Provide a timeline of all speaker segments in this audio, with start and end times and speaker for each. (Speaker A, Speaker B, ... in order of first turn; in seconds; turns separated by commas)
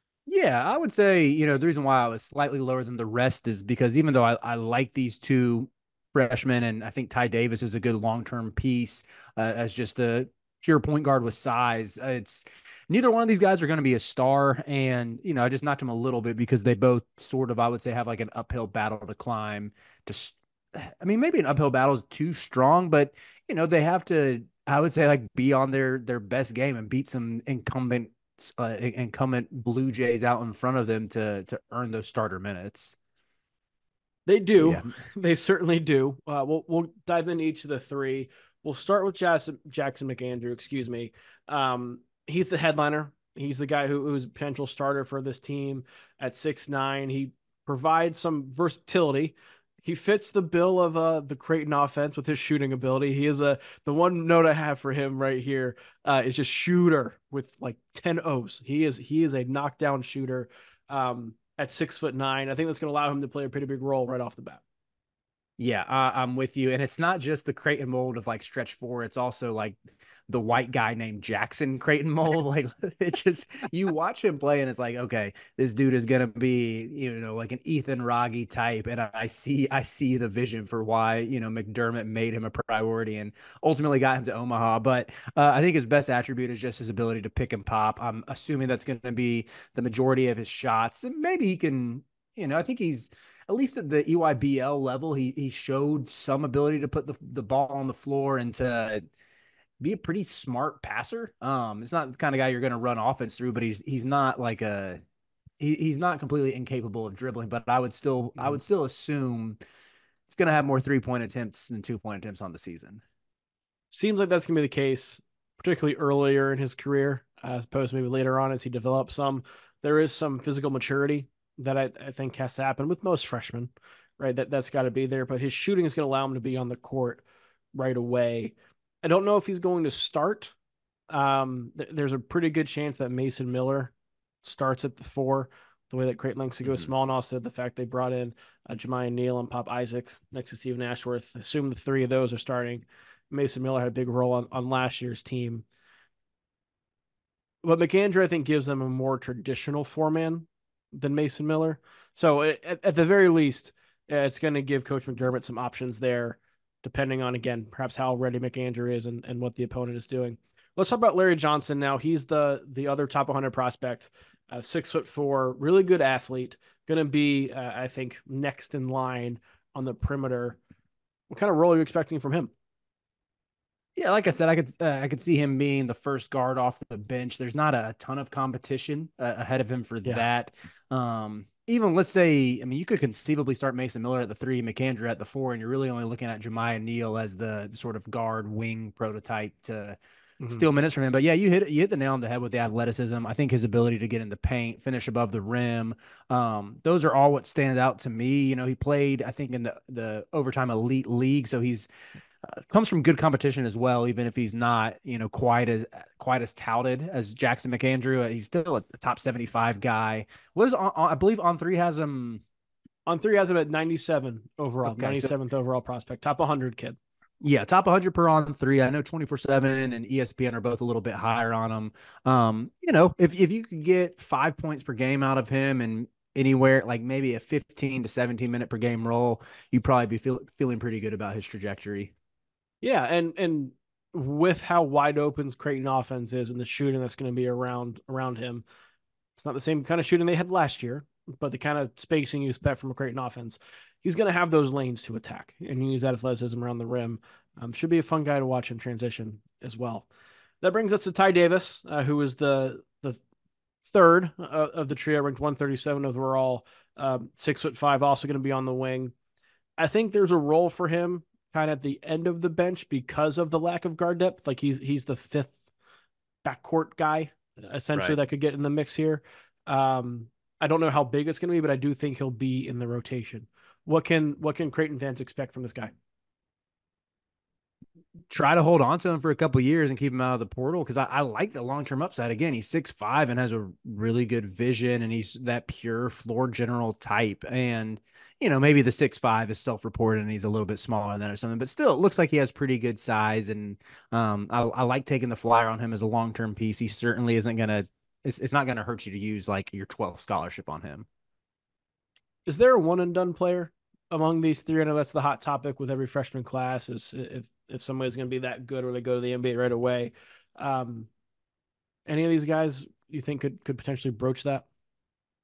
Speaker A: 0.3-33.0, Speaker B: 34.3-64.6, Speaker A: 34.6-34.9, Speaker A: 65.6-99.0, Speaker A: 99.8-105.0, Speaker A: 105.6-109.6, Speaker A: 110.3-113.0, Speaker B: 113.9-130.5, Speaker B: 131.1-133.9, Speaker B: 134.4-145.7, Speaker B: 147.6-170.6, Speaker B: 171.3-172.5, Speaker A: 174.0-190.0, Speaker B: 190.4-190.7, Speaker A: 190.5-201.9, Speaker A: 202.5-212.4, Speaker B: 213.1-217.0, Speaker A: 214.8-215.3, Speaker A: 217.4-232.1, Speaker B: 232.8-238.7, Speaker B: 239.4-250.1, Speaker B: 250.6-253.2, Speaker B: 253.8-259.1, Speaker B: 259.8-265.7, Speaker B: 266.4-275.9, Speaker A: 278.3-301.1, Speaker B: 302.5-311.1, Speaker B: 312.1-314.7